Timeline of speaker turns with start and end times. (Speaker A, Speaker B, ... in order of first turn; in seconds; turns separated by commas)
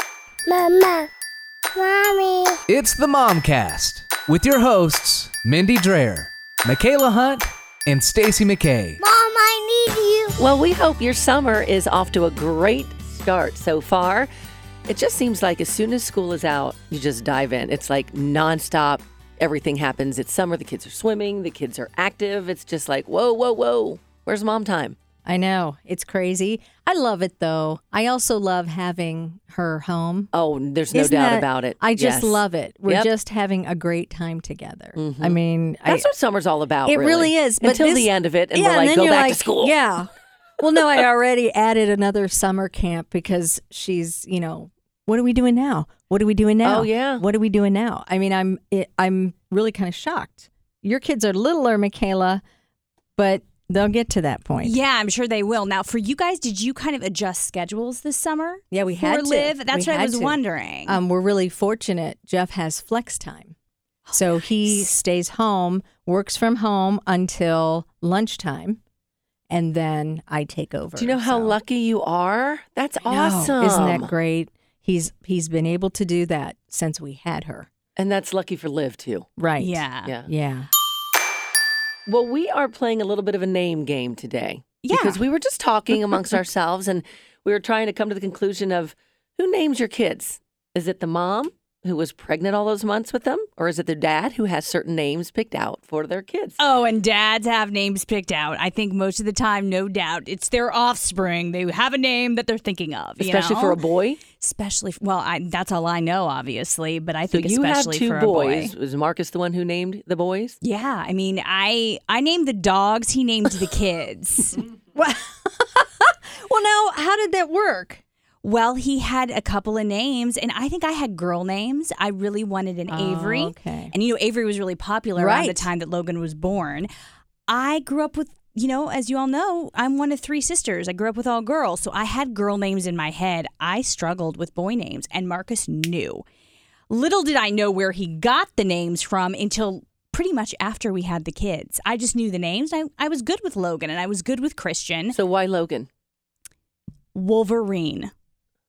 Speaker A: 0.5-1.1, Speaker A: 1.8-2.6, Speaker B: 2.7-9.0, Speaker A: 9.0-10.3, Speaker C: 10.4-14.3, Speaker C: 14.9-25.0, Speaker D: 25.2-30.3, Speaker C: 30.3-33.1, Speaker D: 30.9-36.1, Speaker C: 35.0-39.8, Speaker D: 36.9-40.1, Speaker D: 40.6-52.4, Speaker C: 46.6-47.2, Speaker D: 53.2-54.8, Speaker E: 54.6-61.0, Speaker D: 58.7-63.5, Speaker E: 64.1-64.9, Speaker D: 64.1-68.8, Speaker D: 69.5-71.6, Speaker C: 71.0-74.1, Speaker D: 73.0-77.7, Speaker C: 78.0-79.3, Speaker D: 79.4-80.7, Speaker E: 79.6-80.1, Speaker C: 80.0-80.3, Speaker C: 82.1-96.6, Speaker E: 84.8-85.2, Speaker E: 96.6-103.8, Speaker C: 103.2-104.2, Speaker E: 104.4-108.7, Speaker C: 107.3-110.6, Speaker E: 110.6-114.6, Speaker D: 115.0-118.0, Speaker E: 118.4-126.9, Speaker D: 122.9-123.9, Speaker D: 125.2-125.7, Speaker E: 127.5-136.2, Speaker E: 136.9-145.2, Speaker C: 145.1-145.9, Speaker E: 147.1-148.1